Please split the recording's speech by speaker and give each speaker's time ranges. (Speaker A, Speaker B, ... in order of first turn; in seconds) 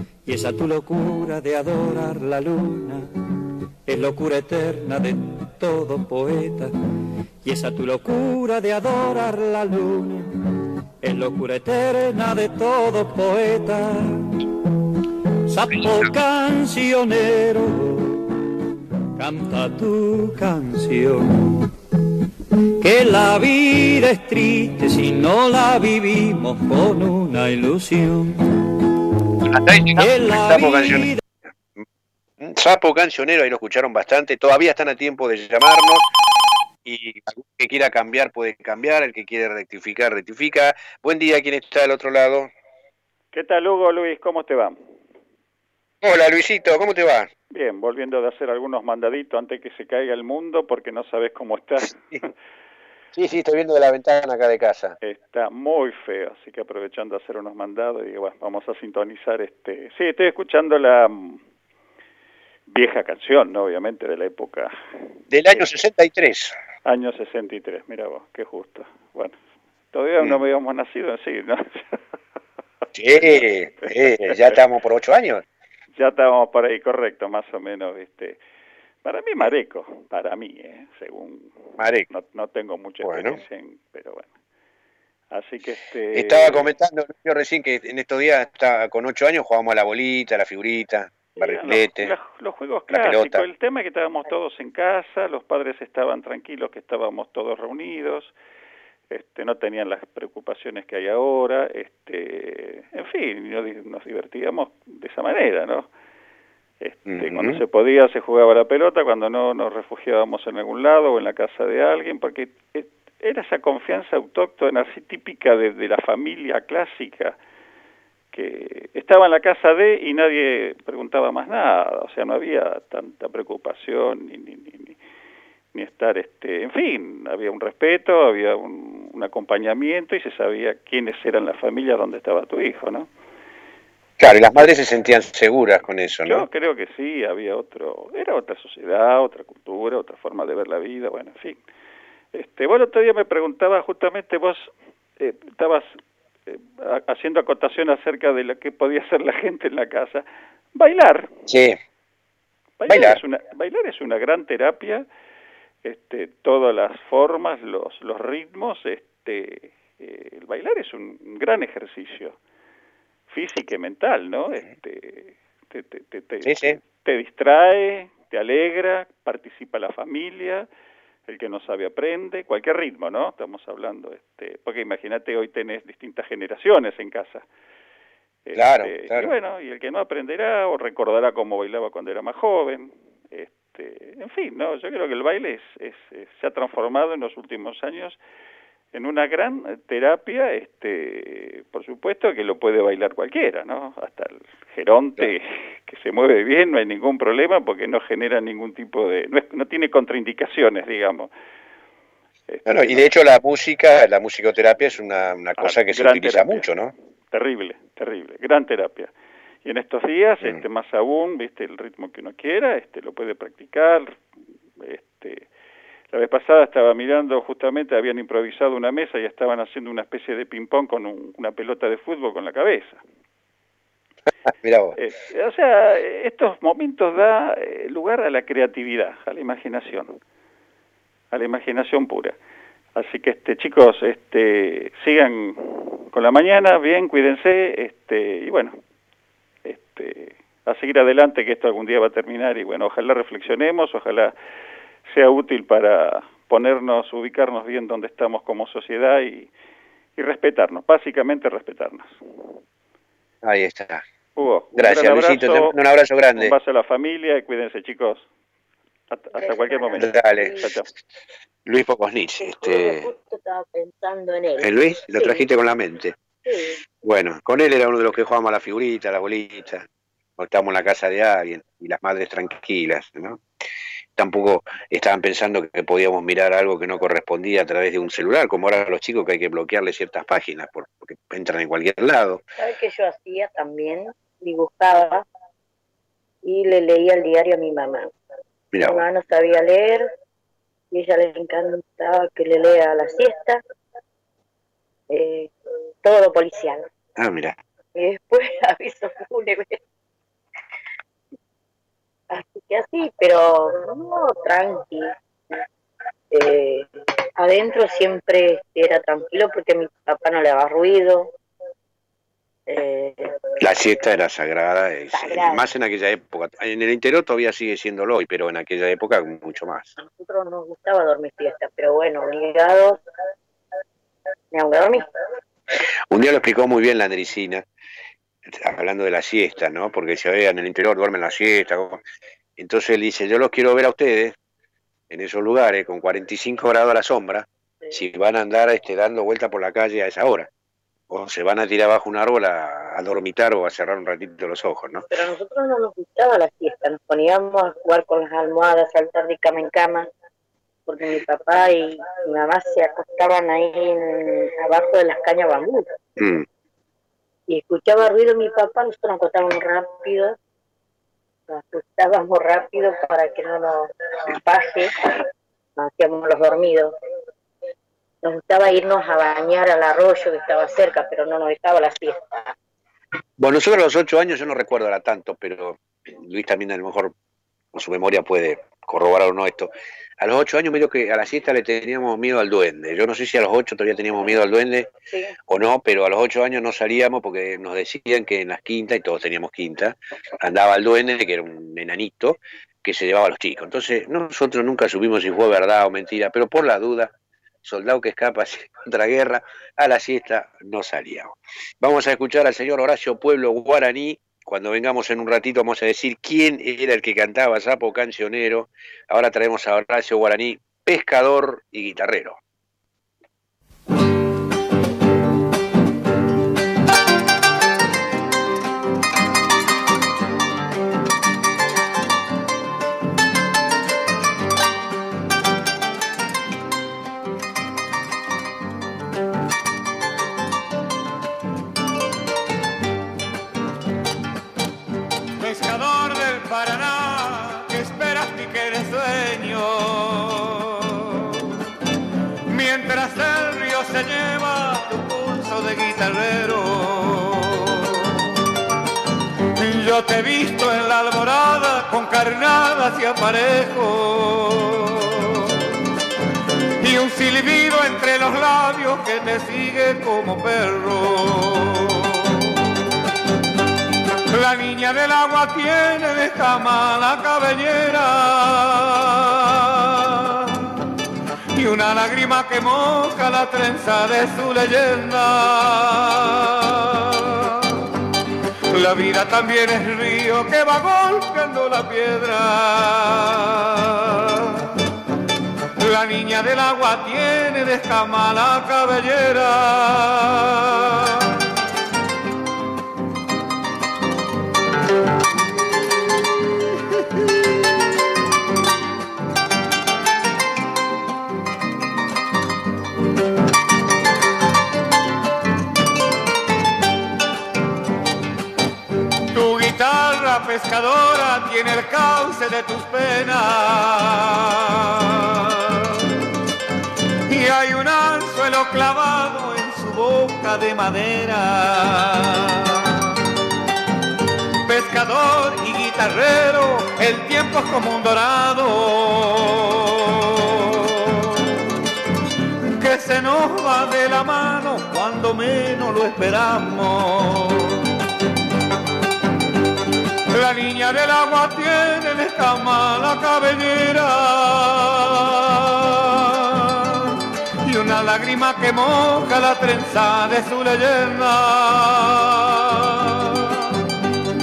Speaker A: 0.3-3.1, 3.9-6.7, 7.4-10.3, 11.0-14.3, 15.5-18.2, 19.2-21.6, 22.8-28.4, 30.0-31.2
Speaker B: 15.7-16.1, 29.4-31.1, 32.4-36.0, 36.9-42.5, 46.0-47.3, 53.1-55.0, 65.3-66.5, 72.9-75.5, 81.8-82.1, 83.0-83.4, 86.1-92.2, 92.9-93.5, 107.1-107.6, 134.2-136.5, 151.5-151.8, 152.9-153.2, 166.4-166.8, 178.6-179.3, 202.7-206.9, 224.6-225.0, 253.4-254.0, 254.7-256.6, 259.9-260.9, 261.7-263.1, 264.6-266.2, 267.0-269.9, 270.4-273.4, 274.2-282.4, 288.7-289.1, 297.2-297.6, 313.6-320.0, 326.1-327.6, 328.5-332.0, 332.6-334.4, 335.1-340.5, 341.1-345.1, 356.2-356.4, 373.4-377.1, 377.7-384.9, 385.5-412.4
Speaker C: 43.3-44.8, 47.5-52.3, 55.0-61.4, 62.7-64.8, 66.9-69.4, 69.9-72.0, 73.2-74.6, 76.0-78.4, 79.0-84.3, 85.3-86.7, 91.3-98.3, 99.1-105.9, 106.8-117.4, 118.3-125.0, 125.7-133.1, 136.3-141.6, 142.3-150.2, 150.8-151.3, 152.8-155.1, 155.8-162.4, 163.3-170.7, 171.3-177.4, 178.5-188.2, 188.9-201.3, 202.5-203.1, 205.6-206.7, 207.3-209.1, 209.6-214.2, 214.8-215.5, 216.1-223.0, 225.0-230.2, 231.3-232.4, 233.0-238.8, 239.7-244.3, 245.1-249.5, 250.2-252.5, 254.4-255.8, 256.3-258.3, 259.1-260.9
Speaker D: 259.4-260.7, 262.4-265.5, 266.4-266.8, 282.6-285.2, 286.4-288.1, 288.8-290.1, 290.9-293.6, 295.1-295.5, 296.0-296.8, 297.9-299.8, 302.3-305.1, 306.3-306.9, 307.4-311.3, 312.7-313.3, 315.1-315.7, 320.0-323.0, 324.5-325.1, 345.1-350.1, 350.9-355.9, 357.5-360.4, 361.5-365.1, 365.8-366.9, 368.2-372.5
Speaker E: 435.4-441.5, 442.5-448.3, 449.6-455.6, 456.8-462.6, 464.3-470.8, 471.6-477.9, 478.7-484.7, 485.8-491.4, 509.3-516.1, 517.3-523.1, 524.7-531.5, 532.8-537.9, 540.3-553.8